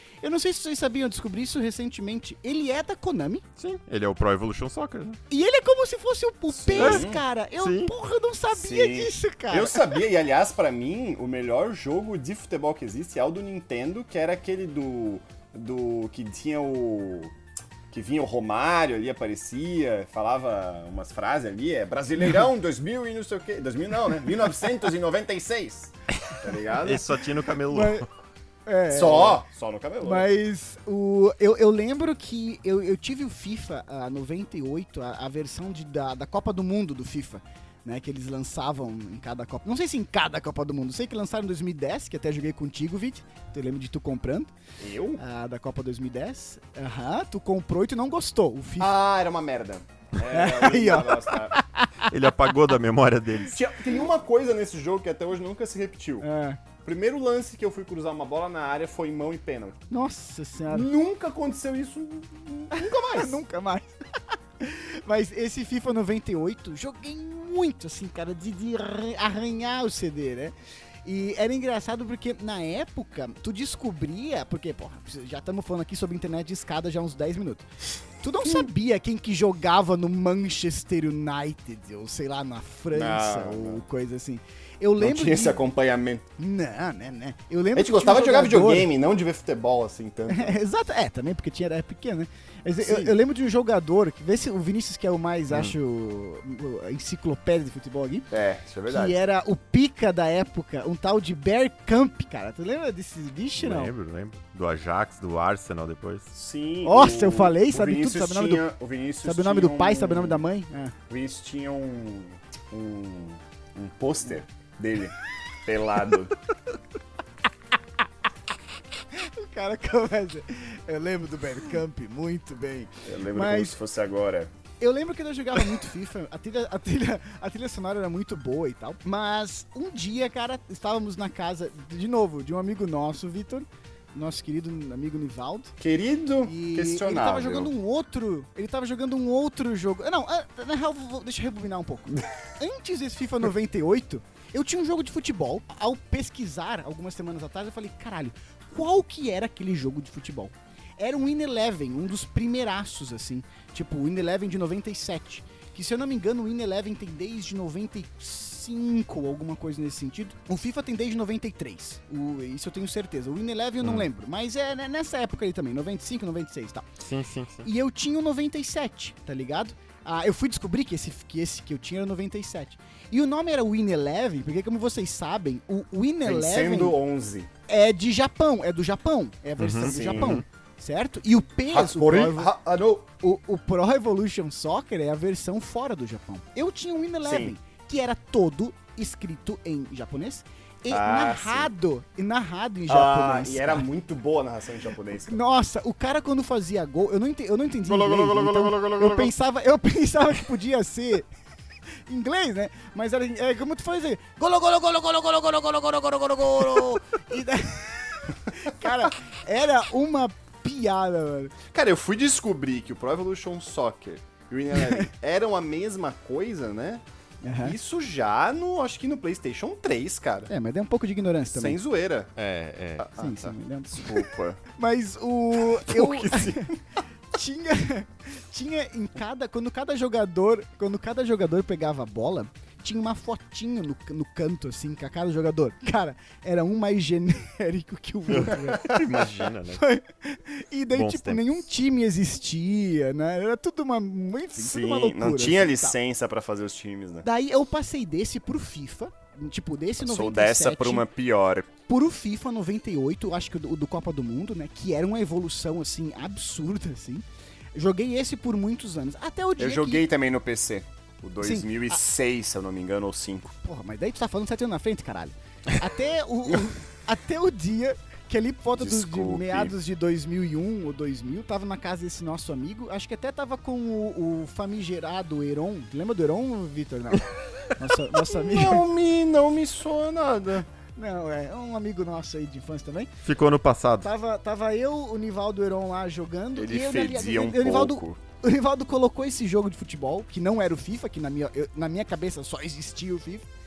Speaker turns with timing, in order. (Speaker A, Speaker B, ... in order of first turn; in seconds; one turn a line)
Speaker A: 0.2-3.4
Speaker B: 3.6-5.2
Speaker A: 5.3-10.0
Speaker C: 6.5-7.2
Speaker B: 6.8-7.9
Speaker C: 8.5-17.3
Speaker C: 17.9-27.1
Speaker B: 26.3-28.1
Speaker A: 27.7-28.1
Speaker A: 28.6-29.4
Speaker C: 28.9-30.3
Speaker A: 30.0-44.5
Speaker C: 44.8-45.2
Speaker A: 45.2-48.9
Speaker C: 48.8-51.6
Speaker A: 50.2-52.1
Speaker B: 52.1-53.6
Speaker C: 53.5-56.2
Speaker A: 56.2-56.6
Speaker C: 56.8-59.8
Speaker A: 59.9-60.9
Speaker C: 60.7-63.4
Speaker A: 62.7-63.9
Speaker A: 64.6-70.5
Speaker A: 71.0-77.7
Speaker A: 78.2-85.6
Speaker C: 82.9-83.8
Speaker C: 85.0-86.2
Speaker A: 86.4-88.9
Speaker C: 87.7-90.6
Speaker A: 90.3-98.3
Speaker C: 92.8-93.1
Speaker C: 98.3-99.2
Speaker A: 98.9-103.9
Speaker B: 103.6-106.3
Speaker C: 106.3-110.4
Speaker A: 106.8-108.7
Speaker A: 109.2-110.9
Speaker C: 111.1-116.3
Speaker A: 119.1-123.7
Speaker C: 123.0-124.5
Speaker A: 124.8-135.7
Speaker C: 135.8-137.7
Speaker A: 136.4-166.8
Speaker B: 163.8-164.1
Speaker B: 167.0-167.7
Speaker A: 167.6-176.9
Speaker C: 176.2-177.5
Speaker A: 177.7-182.5
Speaker B: 179.6-180.4
Speaker C: 179.8-180.4
Speaker C: 181.7-183.1
Speaker A: 183.2-193.8
Speaker C: 187.2-187.5
Speaker C: 190.9-191.7
Speaker C: 192.9-195.4
Speaker A: 195.3-201.3
Speaker B: 197.9-199.3
Speaker A: 202.1-211.5
Speaker C: 211.7-217.0
Speaker A: 217.4-217.8
Speaker C: 217.6-220.5
Speaker A: 220.5-221.8
Speaker C: 221.5-222.3
Speaker B: 222.4-223.1
Speaker C: 223.0-224.6
Speaker A: 223.2-226.7
Speaker C: 225.8-226.8
Speaker A: 227.3-239.0
Speaker B: 238.3-239.8
Speaker C: 238.7-239.0
Speaker A: 239.7-245.9
Speaker B: 240.9-241.6
Speaker C: 244.6-247.2
Speaker A: 247.2-251.1
Speaker C: 250.0-251.7
Speaker A: 251.9-260.1
Speaker C: 259.6-263.5
Speaker A: 261.4-262.0
Speaker A: 263.6-278.8
Speaker C: 268.8-269.7
Speaker C: 278.3-280.7
Speaker A: 280.9-283.1
Speaker B: 283.2-284.1
Speaker A: 284.0-293.5
Speaker C: 286.6-288.2